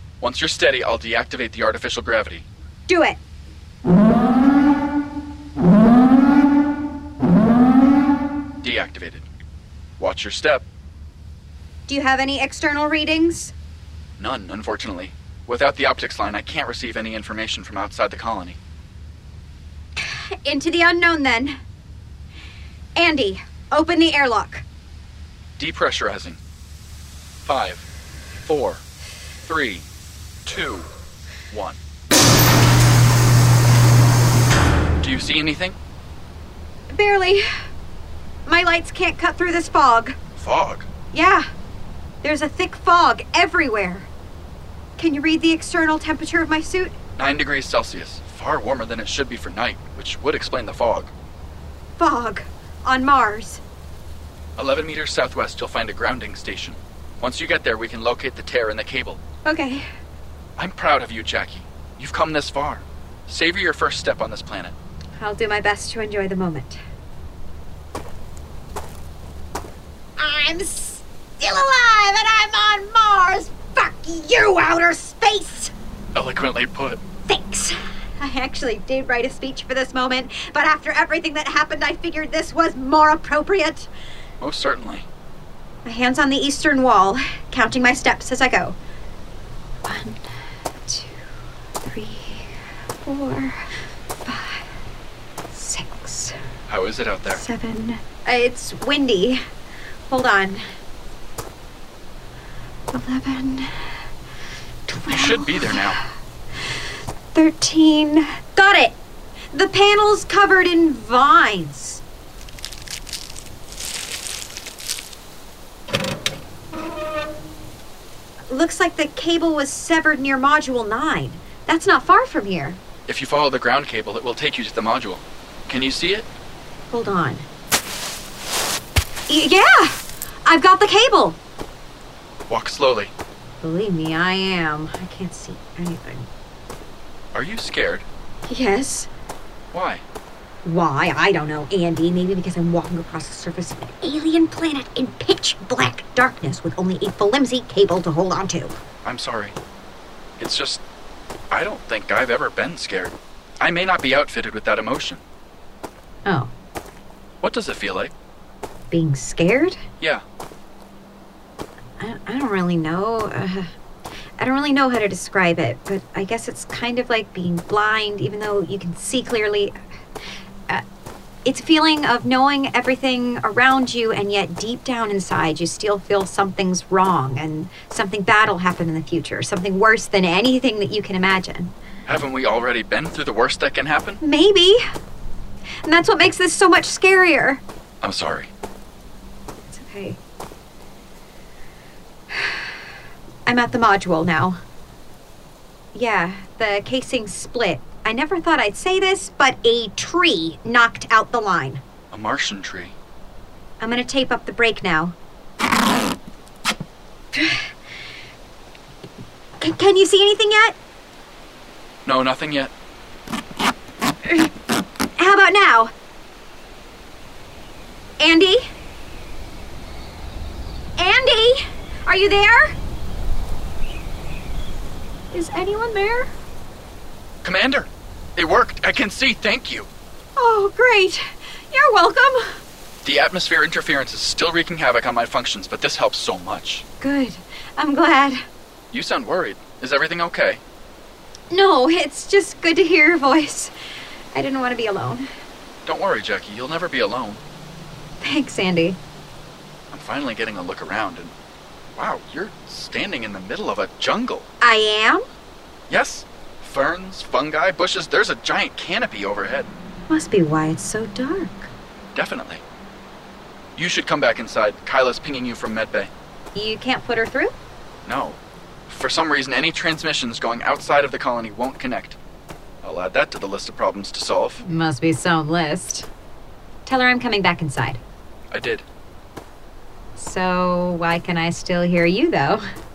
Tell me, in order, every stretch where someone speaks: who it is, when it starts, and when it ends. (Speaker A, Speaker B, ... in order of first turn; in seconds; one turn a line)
Speaker A: 0.2-2.5
Speaker B: 2.9-3.2
Speaker A: 8.6-9.3
Speaker A: 10.0-10.7
Speaker B: 11.9-13.5
Speaker A: 14.2-18.6
Speaker B: 20.0-21.6
Speaker B: 23.0-24.6
Speaker A: 25.6-26.4
Speaker A: 27.4-27.9
Speaker A: 28.4-28.8
Speaker A: 29.4-29.9
Speaker A: 30.4-30.9
Speaker A: 31.5-31.8
Speaker A: 35.0-35.8
Speaker B: 36.9-37.5
Speaker B: 38.5-40.2
Speaker A: 40.4-40.9
Speaker B: 41.1-41.5
Speaker B: 42.2-44.1
Speaker B: 45.0-47.0
Speaker A: 47.2-51.1
Speaker B: 52.0-53.6
Speaker A: 54.6-59.2
Speaker B: 59.5-59.9
Speaker A: 60.6-64.8
Speaker B: 65.2-66.8
Speaker B: 70.2-75.7
Speaker A: 76.1-77.0
Speaker B: 77.3-83.9
Speaker A: 84.4-85.1
Speaker B: 85.8-88.8
Speaker B: 89.9-90.3
Speaker B: 90.9-91.2
Speaker B: 91.8-92.5
Speaker B: 93.0-93.7
Speaker B: 94.2-94.7
Speaker B: 95.5-96.4
Speaker A: 96.7-97.4
Speaker B: 97.3-99.4
Speaker B: 100.1-100.6
Speaker B: 102.9-103.9
Speaker B: 104.9-106.0
Speaker A: 105.1-106.0
Speaker B: 107.3-109.0
Speaker B: 109.5-112.0
Speaker B: 118.5-122.8
Speaker A: 123.1-126.3
Speaker B: 126.9-127.5
Speaker B: 129.3-131.4
Speaker A: 132.5-133.1
Speaker B: 133.6-136.3
Speaker A: 137.3-138.1
Speaker B: 138.5-139.1
Speaker A: 139.7-140.0
Speaker B: 140.6-148.8
Speaker A: 149.0-149.6
Speaker A: 150.4-150.8
Speaker A: 151.5-155.2
Speaker B: 156.3-156.5
Speaker A: 157.4-158.1
Speaker B: 158.9-159.8
Speaker B: 162.0-163.7
Speaker B: 164.4-169.8
Speaker B: 171.4-181.7
Speaker A: 182.1-184.2
Speaker B: 184.2-184.8
Speaker B: 185.8-187.6
Speaker A: 188.0-188.5
Speaker B: 189.7-190.2
Speaker B: 192.3-192.7
Speaker B: 193.5-194.6
Speaker B: 195.9-201.8
Speaker A: 202.1-203.0
Speaker B: 203.8-205.2
Speaker B: 207.3-207.7
Speaker B: 209.6-210.8
Speaker A: 212.1-212.7
Speaker B: 215.2-215.9
Speaker B: 218.2-218.7
Speaker B: 221.0-222.8
Speaker B: 225.3-226.3
Speaker A: 227.4-229.9
Speaker B: 230.4-232.6
Speaker A: 233.0-236.9
Speaker B: 237.0-238.4
Speaker A: 238.9-240.6
Speaker B: 241.5-243.7
Speaker B: 244.3-245.3
Speaker A: 245.9-247.4
Speaker B: 248.2-249.0
Speaker A: 249.9-251.3
Speaker A: 251.9-254.5
Speaker B: 254.6-255.2
Speaker A: 255.9-259.7
Speaker B: 260.1-261.7
Speaker A: 262.1-262.6
Speaker A: 263.8-266.1
Speaker B: 266.6-267.5
Speaker A: 268.1-272.2
Speaker A: 272.8-274.6
Speaker B: 274.6-276.1
Speaker B: 276.9-278.0
Speaker A: 278.5-278.9
Speaker B: 280.2-282.6